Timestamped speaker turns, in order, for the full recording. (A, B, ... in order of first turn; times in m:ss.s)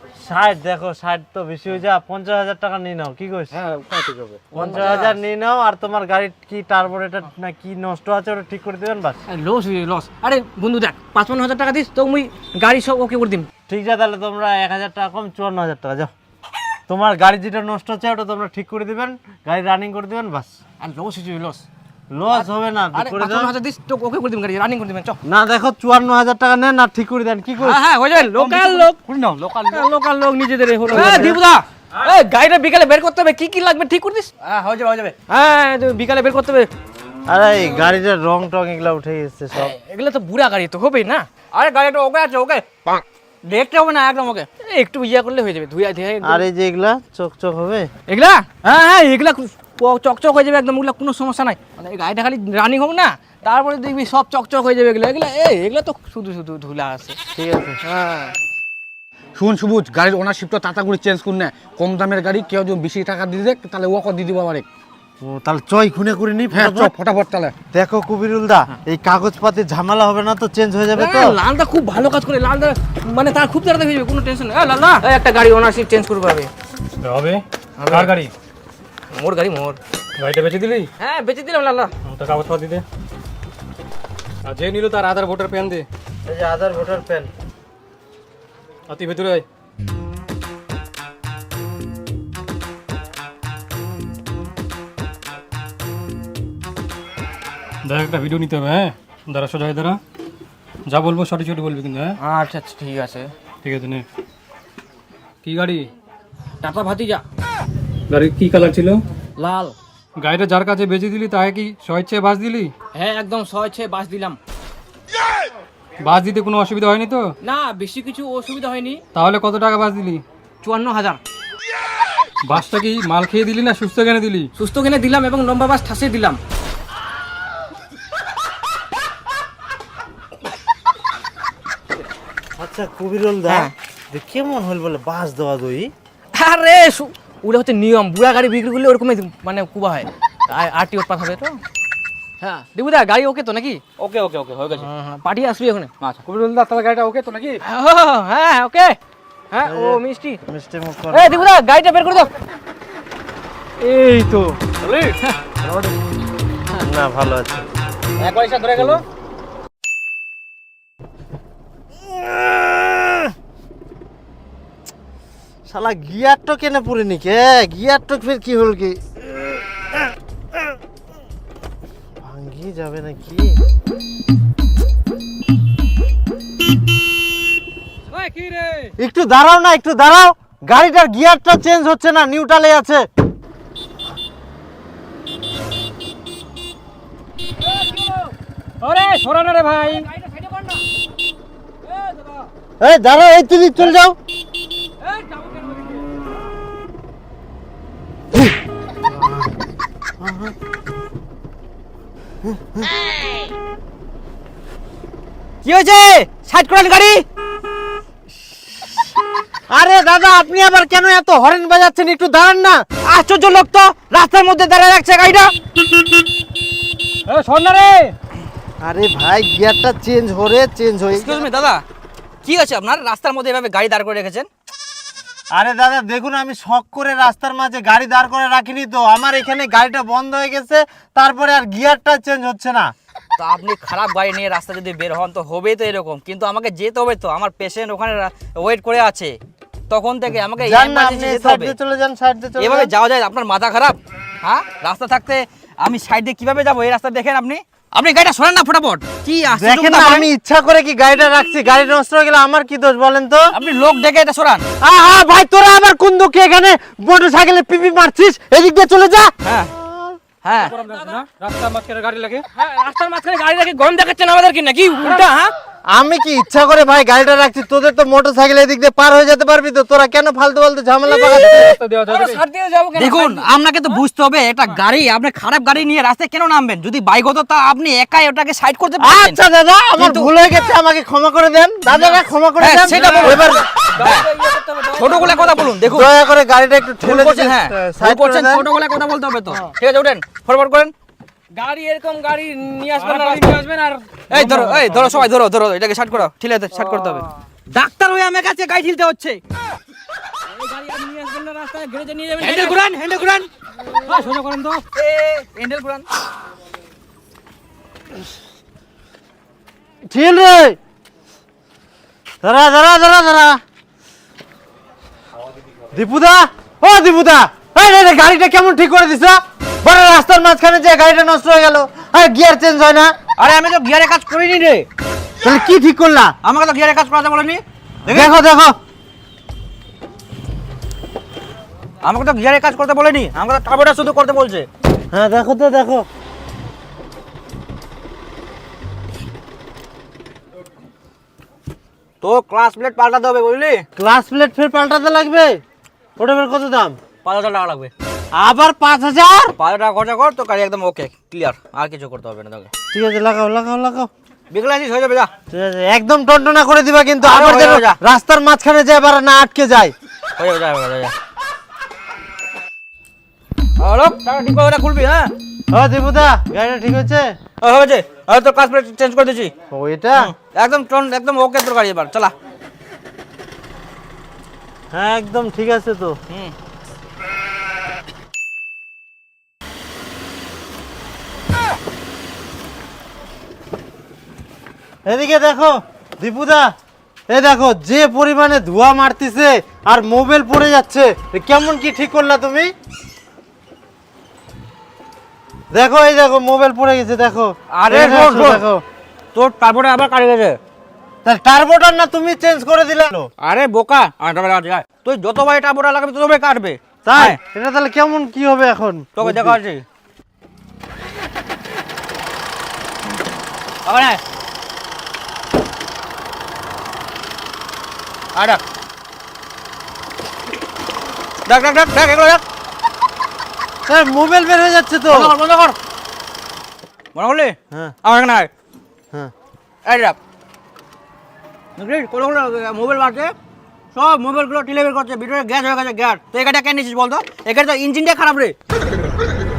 0:00.2-0:03.6 A
0:03.5-0:04.4 B
0:04.5-0:09.2 A
0:04.5-0:05.2 C
0:09.3-0:13.5 C
0:13.7-0:16.1 A
0:16.9-0:20.5 A
0:20.8-0:21.6 C
0:22.1-0:23.5 A
0:22.3-0:25.2 C
0:25.2-0:27.8 A
0:27.6-0:29.0 C
0:28.2-0:29.8 B
0:29.7-0:34.3 C
0:30.9-0:31.4 A
0:34.4-0:35.2 D
0:35.3-0:36.7 C
0:37.3-0:39.7 A
0:39.5-0:41.2 C
0:41.5-0:44.5 D
0:44.6-0:46.4 C
0:46.2-0:47.9 A
0:48.1-0:57.2 C
0:57.3-0:57.8 A
0:57.8-0:58.3 C
0:59.4-1:04.6 B
1:05.2-1:06.9 A
1:06.5-1:07.5 B
1:07.7-1:11.4 A
1:10.9-1:16.5 C
1:17.0-1:18.3 E
1:17.8-1:18.1 C
1:19.1-1:19.8 C
1:20.2-1:20.9 E
1:21.0-1:21.9 C
1:22.0-1:22.8 E
1:24.4-1:25.8 E
1:26.2-1:27.3 A
1:28.9-1:29.4 E
1:37.8-1:40.0 E
1:40.9-1:42.2 E
1:42.2-1:43.3 C
1:43.6-1:44.0 E
1:45.4-1:45.9 E
1:46.6-1:47.2 C
1:48.1-1:49.0 E
1:49.4-1:49.8 C
1:50.2-1:52.7 E
1:52.9-1:54.4 C
1:56.0-1:57.2 E
1:57.4-1:59.0 C
1:59.1-2:00.2 E
2:00.6-2:01.2 C
2:02.4-2:04.5 E
2:04.6-2:06.4 C
2:12.6-2:15.9 A
2:16.3-2:21.6 C
2:22.4-2:23.8 C
2:24.0-2:24.9 D
2:24.8-2:25.9 C
2:26.2-2:27.6 B
2:27.6-2:29.0 C
2:29.5-2:30.4 C
2:29.6-2:31.3 A
2:31.1-2:32.3 C
2:33.8-2:34.6 C
2:34.8-2:35.1 D
2:36.8-2:37.6 A
2:38.2-2:39.0 B
2:45.7-2:49.0 A
2:52.2-2:53.6 A
2:58.2-2:58.5 C
2:59.0-3:03.0 A
3:07.6-3:08.3 C
3:08.8-3:10.0 E
3:08.9-3:10.8 C
3:11.9-3:12.4 C
3:12.8-3:14.2 A
3:15.0-3:16.2 C
3:19.1-3:19.5 A
3:20.2-3:20.5 A
3:22.4-3:22.9 A
3:25.6-3:27.2 D
3:29.7-3:32.8 A
3:33.0-3:35.5 D
3:37.3-3:38.1 E
3:38.8-3:41.5 A
3:41.1-3:41.8 D
3:42.4-3:44.5 D
3:45.5-3:52.9 A
3:53.4-3:59.4 D
3:59.9-4:01.8 D
4:00.6-4:02.9 A
4:02.6-4:10.3 D
4:09.5-4:13.5 A
4:13.5-4:14.6 D
4:14.8-4:20.2 A
4:19.4-4:19.7 D
4:20.4-4:20.8 D
4:20.6-4:22.4 E
4:20.8-4:21.2 C
4:22.5-4:25.5 C
4:25.9-4:31.8 A
4:31.1-4:32.4 E
4:32.0-4:33.5 C
4:33.0-4:39.4 D
4:39.0-4:43.7 A
4:40.0-4:40.3 D
4:41.9-4:42.2 C
4:42.6-4:44.3 D
4:43.0-4:45.7 C
4:45.0-4:46.1 D
4:45.8-4:48.7 A
4:47.0-4:50.9 D
4:51.5-4:53.7 C
4:53.0-4:55.2 E
4:54.3-4:59.4 D
5:00.5-5:02.8 C
5:02.4-5:03.5 D
5:04.1-5:04.5 E
5:04.2-5:04.8 C
5:04.9-5:06.0 D
5:10.0-5:10.8 A
5:12.4-5:13.6 A
5:15.9-5:23.1 A
5:23.4-5:24.9 D
5:25.4-5:26.3 A
5:26.4-5:28.4 D
5:28.0-5:28.7 A
5:32.0-5:34.7 D
5:35.1-5:36.0 A
5:42.2-5:43.8 D
5:44.0-5:45.6 A
5:46.2-5:47.0 A
5:47.2-5:47.9 D
5:48.3-5:49.5 A
5:49.6-5:52.7 D
5:52.9-5:54.1 A
5:54.5-5:55.3 D
5:55.5-5:59.9 A
5:57.2-5:58.0 D
6:00.4-6:01.1 D
6:03.8-6:05.3 D
6:05.7-6:07.2 A
6:07.6-6:09.5 D
6:09.7-6:10.3 A
6:10.1-6:12.3 D
6:14.9-6:16.2 A
6:25.0-6:26.7 A
6:27.3-6:32.7 A
6:35.7-6:38.8 A
6:37.7-6:38.6 D
6:39.3-6:40.6 D
6:41.2-6:43.3 A
6:43.4-6:47.4 D
6:47.0-6:49.6 A
6:49.2-6:49.8 D
6:53.8-6:54.2 D
6:58.3-6:58.6 D
7:01.5-7:02.4 D
7:03.8-7:05.3 A
7:05.1-7:05.8 D
7:07.1-7:08.5 D
7:09.8-7:10.2 D
7:11.8-7:13.3 D
7:13.9-7:18.5 D